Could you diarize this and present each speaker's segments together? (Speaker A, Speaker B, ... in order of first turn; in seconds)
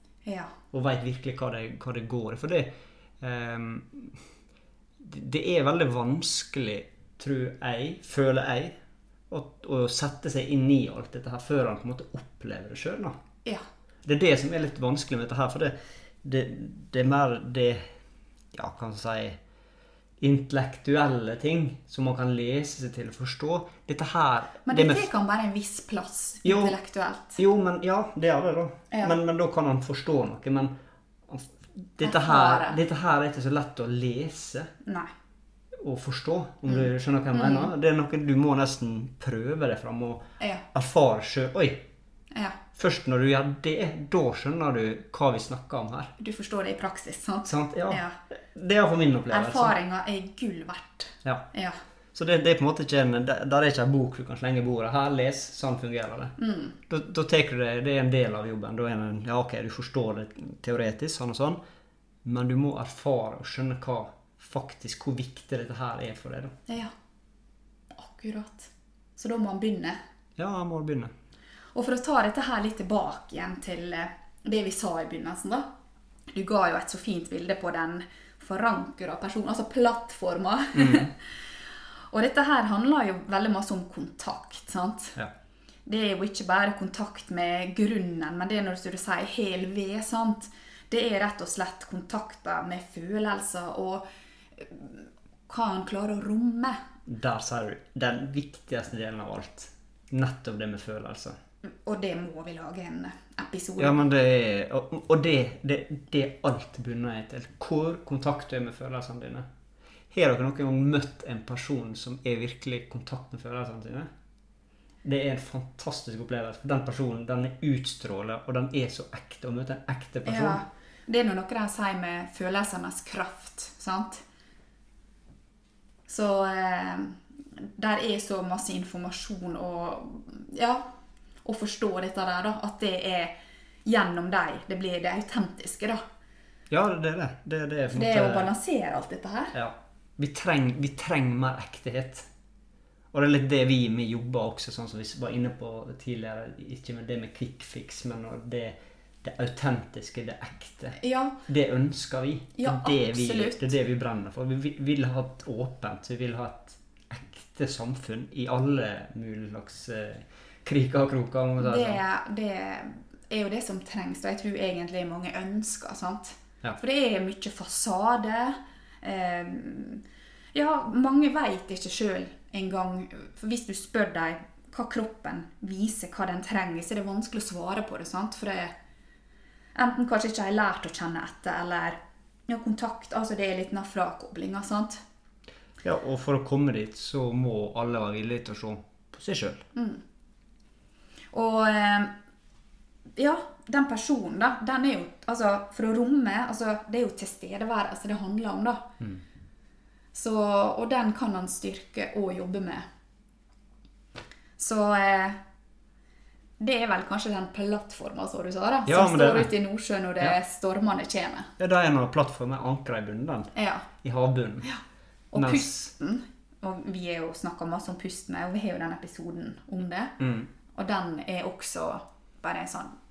Speaker A: 0.3-0.5, 24.6-27.4, 28.9-29.2, 32.0-32.8, 34.9-35.1, 36.7-37.7, 40.4-40.6, 42.3-42.6, 46.2-48.2, 49.3-51.8, 56.4-56.8, 67.9-70.0, 71.8-75.7, 76.3-81.2, 82.1-85.2, 85.9-94.0, 94.6-96.8, 101.7-104.0, 120.3-124.2, 126.1-130.9, 131.4-136.0, 137.9-139.6, 151.0-151.4, 152.6-153.7, 161.6-170.0, 170.5-178.7, 179.8-185.0, 189.7-190.0, 191.3-192.1, 193.2-198.9, 200.1-202.8, 204.6-205.4, 206.6-211.5, 213.6-213.9, 215.3-220.2, 220.8-222.9
Speaker B: 0.7-4.2, 5.0-8.8, 9.3-13.2, 14.1-17.8, 18.5-19.4, 20.2-25.1, 26.4-26.8, 27.4-30.7, 31.3-34.7, 35.8-41.9, 42.8-46.1, 47.5-49.7, 52.1-56.4, 56.9-61.6, 62.2-66.5, 70.4-71.1, 80.8-81.1, 97.1-101.3, 103.8-109.5, 110.1-114.1, 115.0-120.6, 136.7-138.5, 139.5-142.3, 143.1-162.0, 185.8-189.6, 208.9-209.5, 211.6-214.7, 215.3-215.9, 220.2-220.5